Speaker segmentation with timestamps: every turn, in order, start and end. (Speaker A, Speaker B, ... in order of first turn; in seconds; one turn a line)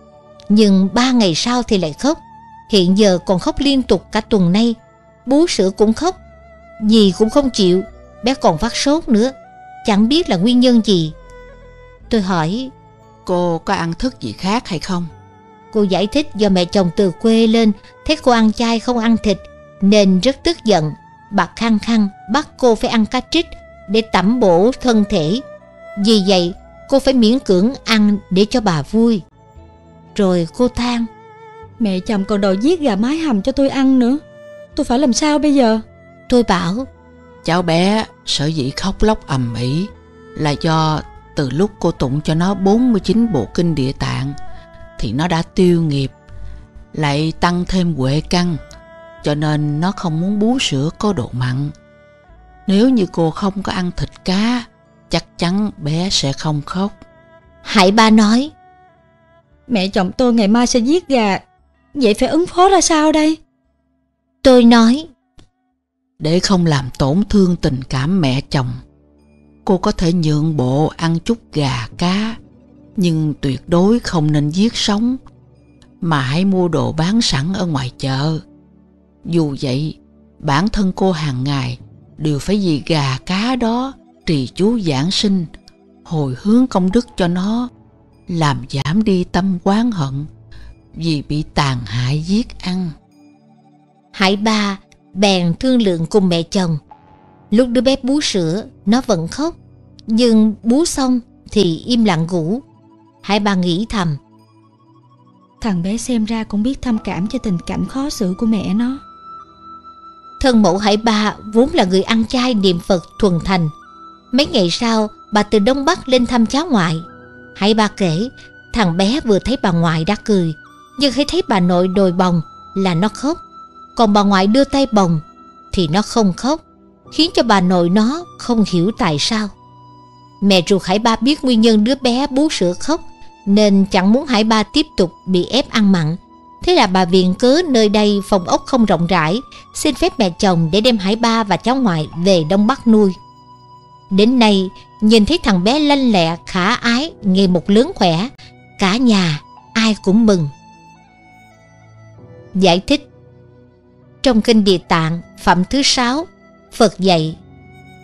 Speaker A: 0.5-6.2
Speaker A: 6.8-11.1
Speaker A: 12.1-12.7
Speaker B: 13.2-15.1
Speaker A: 15.7-25.4
Speaker A: 26.0-29.2
Speaker A: 30.1-31.1
Speaker C: 31.8-34.2
Speaker C: 34.8-35.8
Speaker A: 36.3-36.9
Speaker B: 37.4-44.4
Speaker B: 45.0-46.1
Speaker B: 46.9-48.6
Speaker B: 49.2-51.7
Speaker B: 52.7-56.9
Speaker A: 57.6-58.5
Speaker C: 59.7-61.4
Speaker C: 61.9-63.4
Speaker A: 64.4-65.1
Speaker B: 66.2-68.8
Speaker B: 69.7-72.4
Speaker B: 73.0-75.2
Speaker B: 76.0-78.4
Speaker B: 79.3-85.5
Speaker B: 86.0-87.7
Speaker B: 88.3-90.3
Speaker B: 91.0-93.0
Speaker A: 94.1-96.8
Speaker A: 97.5-99.6
Speaker A: 100.1-102.6
Speaker A: 103.2-104.2
Speaker C: 105.6-109.0
Speaker A: 110.4-113.7
Speaker A: 114.3-123.4
Speaker A: 124.0-125.2
Speaker A: 125.7-129.5
Speaker A: 130.4-143.2
Speaker A: 144.1-150.5
Speaker A: 152.5-153.0
Speaker A: 154.2-157.4